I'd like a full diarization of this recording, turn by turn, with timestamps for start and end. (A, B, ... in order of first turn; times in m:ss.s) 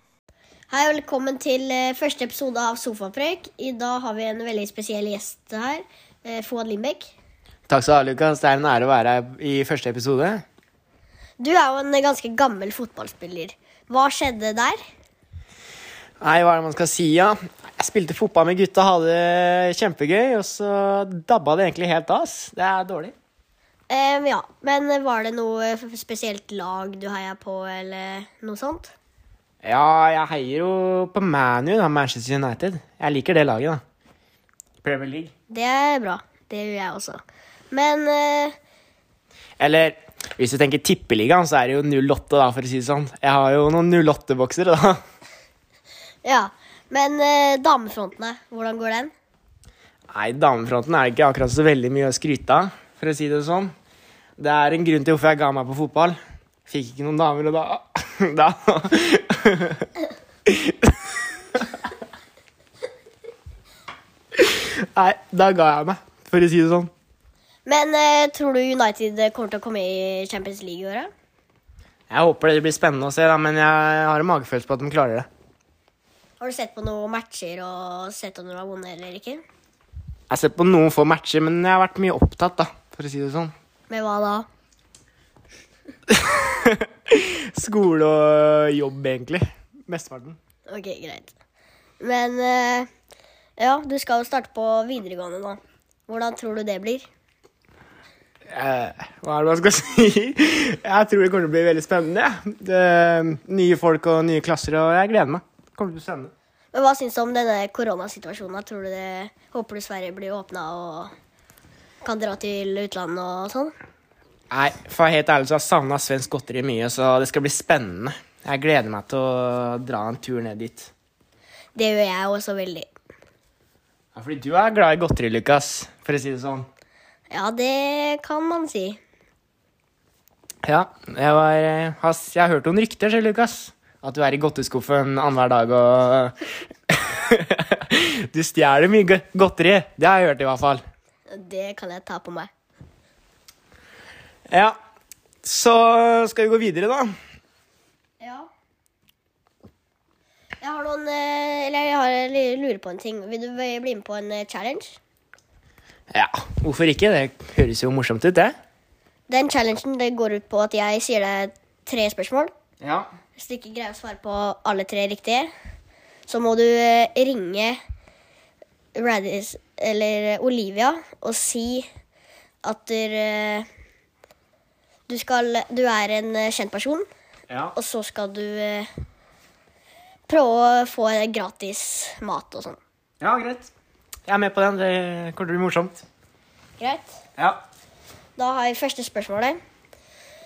0:00.7-0:07.1 A
0:07.7-0:10.4 B
0:11.4-0:14.8 A
0:16.2-0:23.1 B
0:23.9-0:28.9 A
0:29.6-0:33.8 B
0:34.8-0:35.3 B
0:35.5-0:38.6 A
0:39.6-0:45.0 B
0:46.2-0:49.1 A
0:50.1-0:53.7 B
0:54.4-0:59.9 B
1:00.5-1:01.0 B
1:04.4-1:06.9 B
1:07.7-1:11.1 A
1:12.1-1:15.3 B
1:16.4-1:19.4 A
1:20.3-1:23.5 B
1:23.9-1:24.5 A
1:26.1-1:30.4 B
1:30.7-1:31.3 A
1:32.0-1:32.9 A
1:33.6-1:37.1 A
1:38.5-1:46.3 B
1:46.7-1:51.1 A
1:52.0-1:53.7 A
1:54.5-2:00.9 B
2:01.8-2:02.9 A
2:04.2-2:06.7 B
2:07.3-2:09.0 A
2:10.6-2:16.4 B
2:16.9-2:20.8 B
2:21.3-2:22.5 A
2:24.5-2:24.8 B
2:25.4-2:27.1 B
2:28.2-2:28.5 A
2:30.6-2:35.0 A
2:36.1-2:38.5 B
2:39.3-2:42.5 A
2:42.8-2:43.1 B
2:43.4-2:45.5 A
2:46.3-2:47.8 A
2:49.0-2:51.9 A
2:52.6-2:53.7 A
2:55.1-2:57.1 A
2:57.8-2:58.9 A
3:00.3-3:02.8 A
3:03.2-3:03.7 B
3:04.3-3:06.0 B
3:06.8-3:07.2 A
3:08.4-3:09.6 A